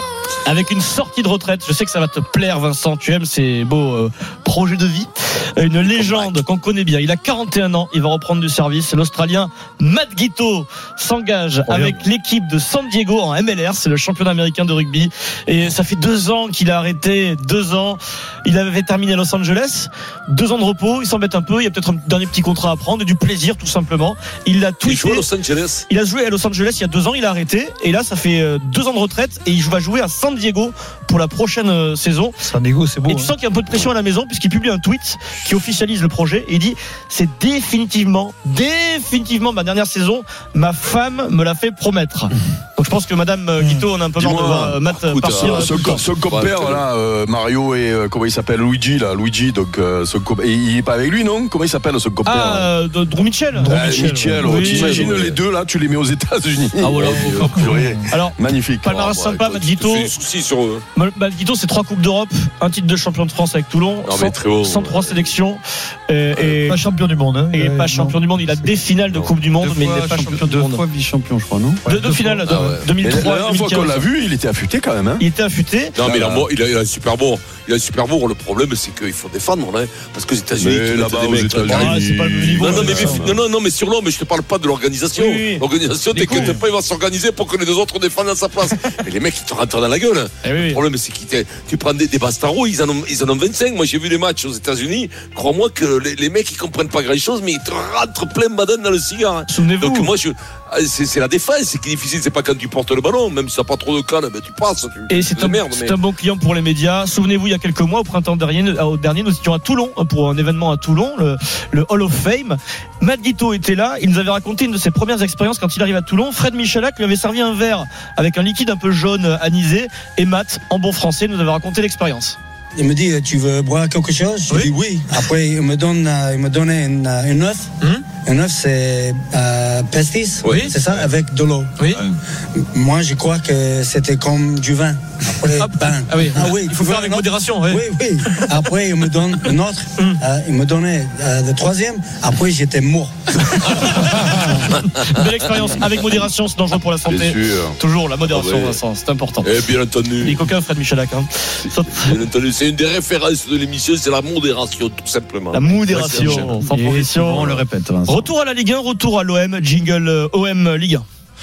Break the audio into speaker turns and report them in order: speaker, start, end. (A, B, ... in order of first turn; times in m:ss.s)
0:00.4-0:25.3 A
0:05.8-0:06.3 B
0:11.7-0:12.0 C
0:24.8-0:25.8 B
0:25.9-0:32.4 A
0:32.5-0:33.4 C
0:33.0-0:46.0 A
0:44.2-0:44.8 D
0:44.8-0:46.9 B
0:45.3-0:52.7 D
0:52.2-0:55.1 A
0:53.6-0:55.0 C
0:53.7-0:59.0 D
0:54.6-0:55.4 B
0:56.8-1:00.1 A
0:56.9-0:57.4 B
0:57.4-0:58.0 C
0:58.9-1:00.8 B
1:01.0-1:06.8 A
1:04.0-1:05.3 B
1:06.7-1:08.2 C
1:07.5-1:10.8 A
1:09.5-1:12.0 E
1:11.8-1:14.1 A
1:12.0-1:12.7 C
1:12.5-1:12.9 B
1:12.6-1:15.3 D
1:15.2-1:16.0 A
1:16.0-1:22.0 B
1:16.0-1:16.5 D
1:20.6-1:23.4 D
1:21.7-1:23.3 C
1:22.5-1:46.0 B
1:25.2-1:26.6 A
1:30.4-1:30.8 A
1:39.5-1:40.1 A
1:45.1-2:02.4 A
2:02.8-2:11.7 F
2:10.4-2:10.8 B
2:10.5-2:10.7 A
2:11.8-2:12.1 A
2:12.7-2:23.1 F
2:15.5-2:18.4 A
2:23.4-2:29.5 A
2:27.1-2:27.8 D
2:28.3-2:28.8 B
2:29.4-2:30.4 B
2:30.2-2:32.2 A
2:31.9-2:36.5 B
2:35.5-2:41.0 A
2:36.1-2:38.3 E